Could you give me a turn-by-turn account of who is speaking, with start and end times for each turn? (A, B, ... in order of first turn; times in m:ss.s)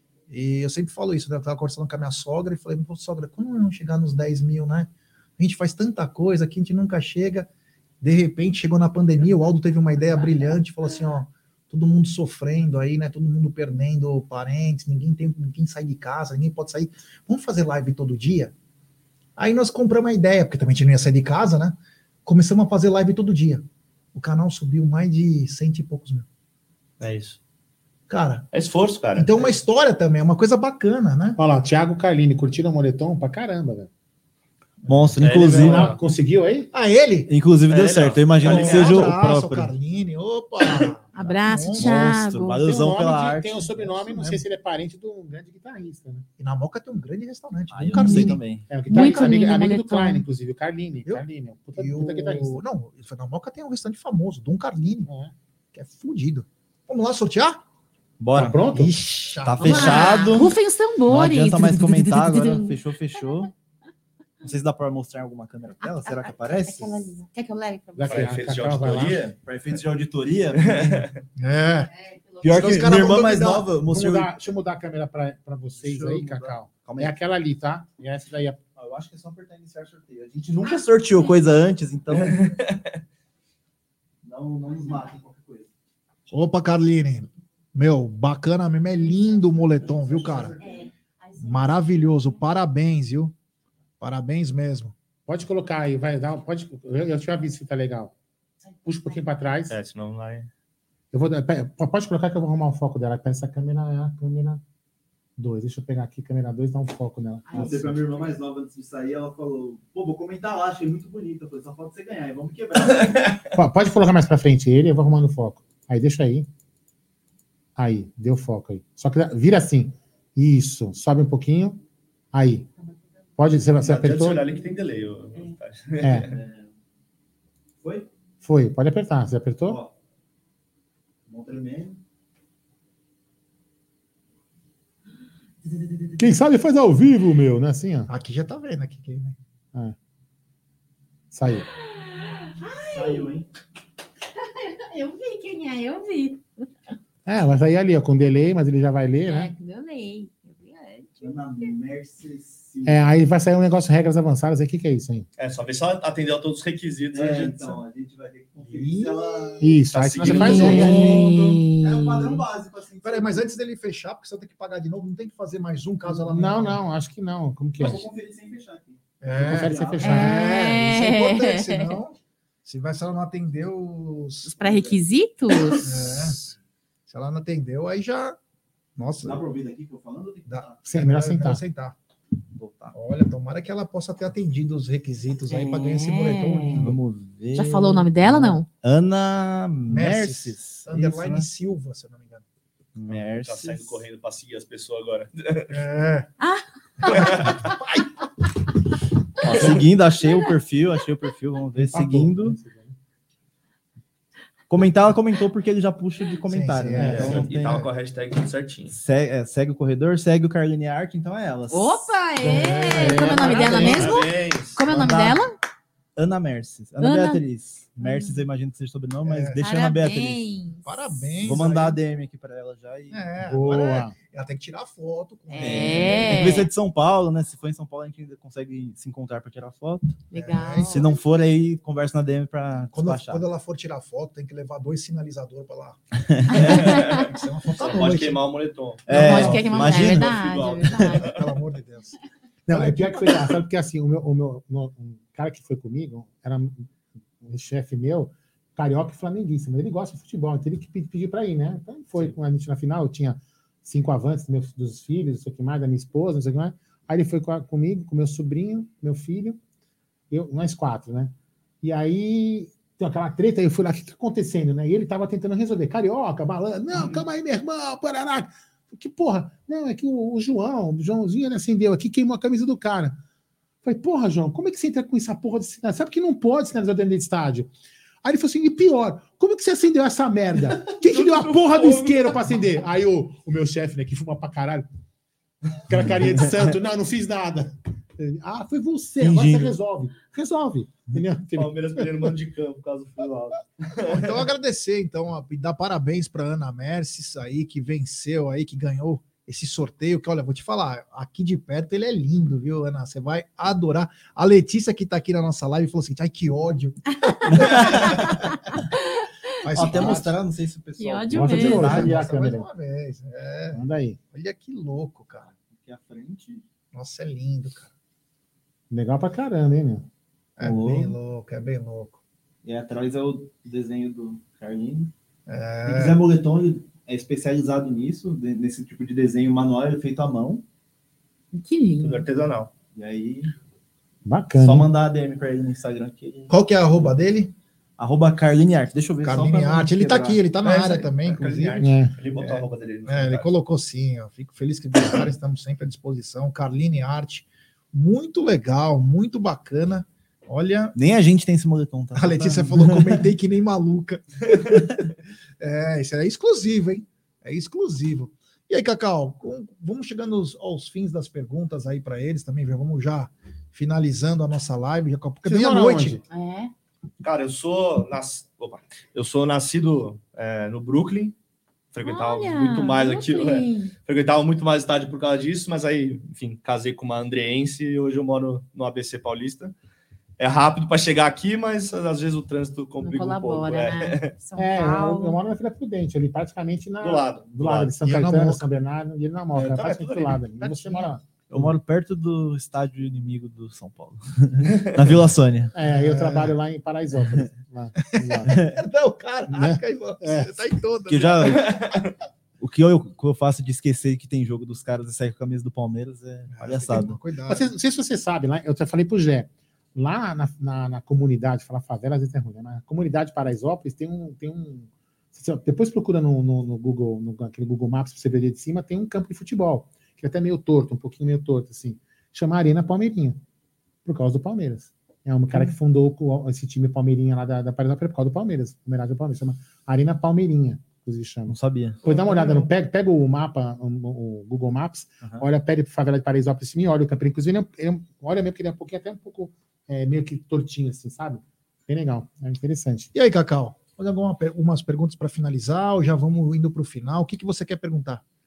0:00.3-0:07.5 A
0:08.0-0:18.5 A
0:19.4-0:26.2 A
0:27.0-0:27.4 B
0:28.1-0:28.5 A
0:28.5-0:29.5 B
0:29.1-0:31.4 A
0:31.4-0:33.9 C
0:34.9-0:35.2 A
0:34.9-0:35.9 D
0:35.2-0:36.0 B
0:35.4-0:36.7 C
0:36.7-0:37.3 A
0:37.3-0:39.7 D
0:37.7-0:39.1 B
0:38.4-0:42.1 A
0:41.1-0:42.6 E
0:41.7-0:44.3 D
0:42.6-0:46.3 C
0:46.4-0:48.4 A
0:47.7-0:48.7 D
0:47.9-0:52.6 C
0:48.9-0:50.2 E
0:51.8-0:55.1 A
0:55.1-0:55.3 C
0:55.7-0:57.6 A
0:58.2-0:58.5 D
0:58.4-0:58.9 C
0:58.6-1:00.2 A
0:59.4-1:00.5 D
0:59.6-1:02.8 E
1:01.1-1:03.5 D
1:04.4-1:07.1 D
1:05.8-1:08.3 E
1:08.0-1:09.2 C
1:08.1-1:09.2 B
1:09.0-1:11.1 D
1:10.6-1:11.1 B
1:11.4-1:11.9 A
1:12.0-1:12.8 E
1:12.4-1:14.4 D
1:12.5-1:13.7 A
1:13.8-1:18.6 C
1:15.8-1:17.1 D
1:18.8-1:22.5 D
1:22.4-1:22.8 B
1:24.2-1:25.7 D
1:26.3-1:30.6 A
1:29.9-1:30.5 D
1:31.4-1:33.3 A
1:34.0-1:34.9 A
1:35.3-1:38.1 C
1:38.8-1:39.7 C
1:39.7-1:40.5 B
1:41.1-1:44.6 C
1:45.4-1:48.0 C
1:47.5-1:53.4 D
1:47.5-1:48.1 E
1:53.6-1:56.5 C
1:57.8-2:01.8 C
2:02.3-2:02.7 C
2:03.4-2:04.4 C
2:03.8-2:06.3 B
2:06.2-2:06.7 D
2:07.8-2:08.1 D
2:08.4-2:09.8 C
2:09.6-2:09.9 D
2:11.3-2:12.0 D
2:15.8-2:16.2 D
2:16.2-2:18.1 C
2:18.1-2:19.4 A
2:21.3-2:21.6 C
2:21.9-2:23.3 E
2:22.9-2:23.5 D
2:24.4-2:26.6 E
2:27.2-2:29.5 C
2:29.2-2:31.7 E
2:31.2-2:33.1 D
2:32.8-2:35.3 C
2:35.4-2:37.8 B
2:37.1-2:43.4 D
2:38.6-2:41.3 A
2:39.6-2:41.2 C
2:40.3-2:42.4 E
2:43.0-2:46.8 A
2:46.1-2:48.0 C
2:47.8-2:50.4 D
2:49.2-2:55.0 A
2:49.3-2:50.6 C
2:50.0-2:52.0 E
2:54.4-2:56.1 E
2:55.8-2:56.4 A
2:57.1-2:58.4 A
2:59.0-2:59.4 A
2:59.2-3:00.8 D
3:00.5-3:02.0 A
3:00.9-3:01.6 C
3:02.6-3:02.9 D
3:02.9-3:07.0 A
3:05.5-3:06.9 E
3:06.7-3:11.5 D
3:07.5-3:08.7 E
3:09.9-3:12.4 A
3:12.9-3:14.0 D
3:13.1-3:15.8 B
3:15.7-3:16.3 A
3:16.4-3:17.7 E
3:17.0-3:18.0 A
3:19.4-3:22.6 D
3:21.8-3:22.9 C
3:24.7-3:27.6 D
3:26.5-3:27.9 A
3:26.9-3:27.8 C
3:27.1-3:29.0 B
3:28.9-3:32.2 D
3:31.7-3:35.5 E
3:32.4-3:34.1 C
3:32.8-3:34.0 D
3:33.5-3:34.8 B
3:33.7-3:34.0 A
3:34.9-3:35.4 D
3:36.2-3:40.4 D
3:37.0-3:37.4 E
3:38.0-3:38.4 E
3:39.2-3:39.6 A
3:39.6-3:41.6 E
3:40.8-3:42.0 A
3:41.4-3:43.3 D
3:43.1-3:46.4 A
3:43.4-3:44.1 C
3:45.5-3:46.7 E
3:45.6-3:50.1 D
3:50.3-3:51.1 E
3:50.3-3:51.1 A
3:50.8-3:53.4 D
3:52.9-3:56.0 A
3:56.3-3:56.7 D
3:56.5-3:57.2 E
3:56.6-4:00.9 B
3:56.6-3:58.4 A
3:59.0-4:01.1 D
3:59.1-4:01.3 E
4:01.2-4:02.1 A
4:02.7-4:06.9 C
4:02.7-4:03.5 A
4:07.4-4:19.6 C
4:20.3-4:33.2 C
4:33.8-4:44.9 C
4:41.0-4:42.5 B
4:45.9-4:52.3 C
4:45.9-4:46.7 D
4:49.2-4:49.8 D
4:51.6-4:54.4 B
4:54.1-5:08.4 A
5:07.1-5:09.3 E
5:07.5-5:08.4 D
5:09.6-5:10.3 A
5:09.7-5:12.3 D
5:11.0-5:11.9 E
5:11.3-5:12.6 C
5:11.7-5:15.5 A
5:13.7-5:14.2 C
5:15.5-5:16.6 D
5:16.9-5:17.9 A
5:18.9-5:20.1 C
5:20.6-5:22.2 A
5:20.6-5:21.1 D
5:22.6-5:25.1 D
5:25.5-5:26.2 A
5:25.8-5:30.6 D
5:31.5-5:32.2 E
5:32.0-5:32.7 B
5:32.9-5:33.5 D
5:34.2-5:34.9 C
5:34.6-5:36.5 D
5:36.5-5:37.5 A
5:38.0-5:40.4 D
5:39.2-5:41.8 A
5:40.6-5:43.5 B
5:41.8-5:42.1 C
5:42.4-5:51.0 A
5:50.9-5:53.2 D
5:52.1-5:54.8 A
5:55.6-6:06.2 A
6:05.4-6:06.2 C
6:06.3-6:06.7 E
6:07.2-6:11.3 B
6:11.9-6:19.7 B
6:12.0-6:13.9 E
6:20.4-6:24.3 B
6:23.0-6:25.4 E
6:24.6-6:31.7 C
6:27.0-6:27.9 B
6:28.0-6:28.6 A
6:29.5-6:30.4 B
6:30.6-6:31.1 A
6:31.5-6:35.7 D
6:35.7-6:38.5 C
6:35.9-6:36.5 A
6:38.1-6:41.7 A
6:38.5-6:38.8 D
6:39.5-6:40.5 C
6:41.1-6:41.7 D
6:41.6-6:42.1 B
6:42.6-6:47.2 D
6:46.5-6:47.7 A
6:47.5-7:03.4 C
7:04.0-7:23.1 C
7:11.5-7:12.4 D
7:23.1-7:28.2 A